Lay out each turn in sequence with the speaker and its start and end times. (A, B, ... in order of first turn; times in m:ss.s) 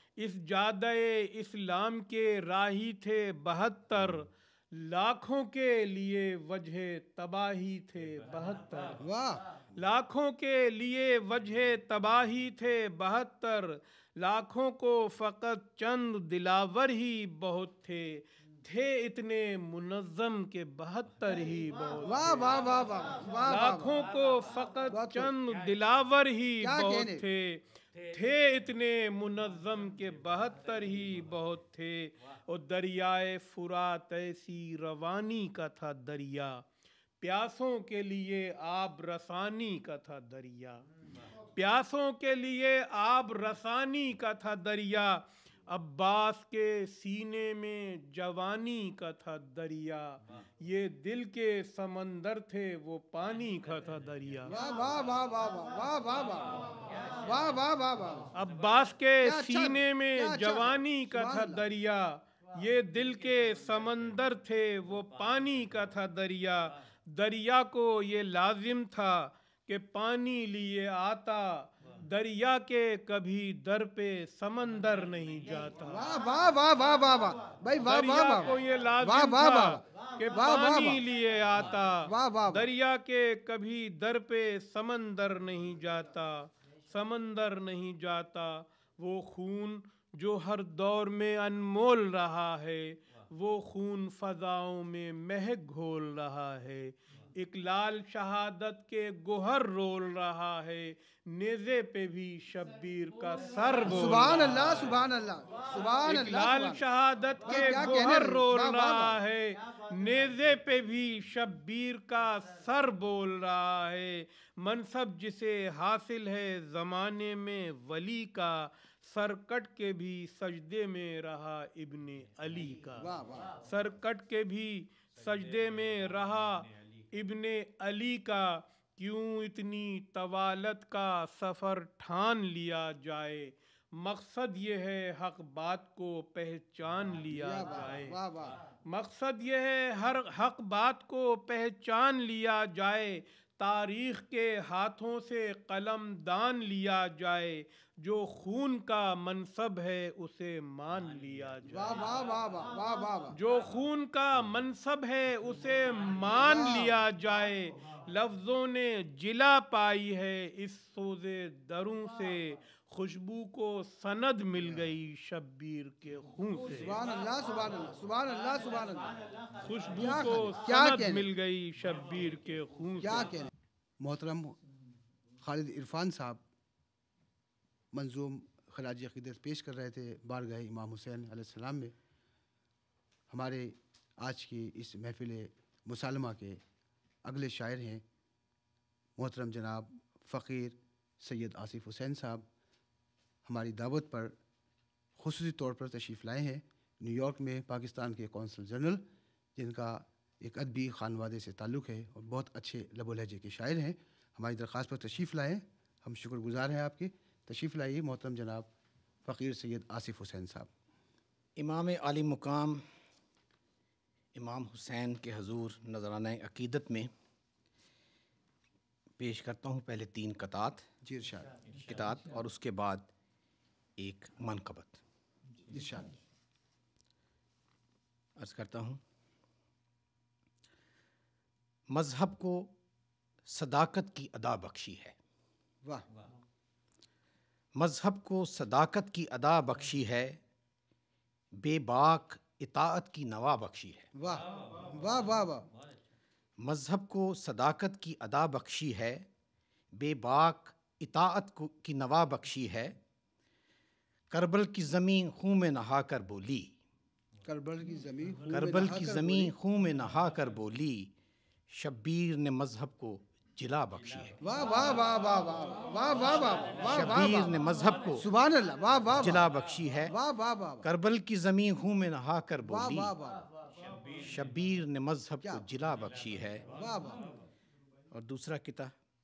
0:00.2-0:09.0 A
0:09.0-0:09.4 B
0:09.8-0:22.3 A
0:22.0-0:23.9 B
0:23.4-0:36.6 A
0:24.9-0:25.3 B
0:26.6-0:27.2 B
0:37.2-0:40.8 A
0:41.6-0:54.5 A
0:54.4-0:56.6 B
0:57.2-0:58.3 B
0:58.4-1:16.0 A
0:59.2-1:01.6 B
1:15.9-1:21.0 B
1:17.8-1:44.4 A
1:22.1-1:22.7 B
1:43.8-1:46.8 B
1:46.0-2:03.1 A
1:47.5-1:49.2 B
2:03.0-2:03.5 B
2:03.6-2:18.1 A
2:17.3-2:18.6 B
2:18.9-2:32.0 A
2:31.6-2:33.4 B
2:33.3-2:46.9 A
2:36.4-2:37.0 B
2:46.8-2:49.1 B
2:49.6-2:53.3 A
2:50.0-2:51.3 B
2:53.0-2:54.6 B
2:55.4-2:56.4 B
2:57.9-3:01.9 B
3:03.3-3:06.6 B
3:07.2-3:08.0 B
3:09.2-3:12.4 B
3:13.4-3:14.4 B
3:15.2-3:19.0 B
3:19.6-3:28.7 B
3:29.2-3:30.7 B
3:31.6-3:32.8 C
3:34.4-3:37.1 C
3:39.2-3:40.9 C
3:41.0-3:41.5 B
3:41.7-3:43.1 C
3:44.0-3:45.0 C
3:45.7-3:46.2 B
3:48.4-3:49.0 C
3:51.9-3:52.7 C
3:53.5-3:55.1 C
3:57.8-4:00.4 C
4:01.6-4:04.1 C
4:04.1-4:05.7 B
4:06.6-4:09.3 C
4:09.9-4:13.0 C
4:14.3-4:16.7 C
4:17.4-4:19.5 B
4:18.5-4:21.1 C
4:21.7-4:24.4 C
4:24.4-4:27.5 B
4:26.8-4:28.2 C
4:28.2-4:29.4 B
4:29.2-4:30.1 C
4:30.1-4:30.9 B
4:30.8-4:33.1 C
4:32.6-4:33.4 B
4:34.2-4:36.7 C
4:36.7-4:37.3 B
4:38.1-4:38.9 C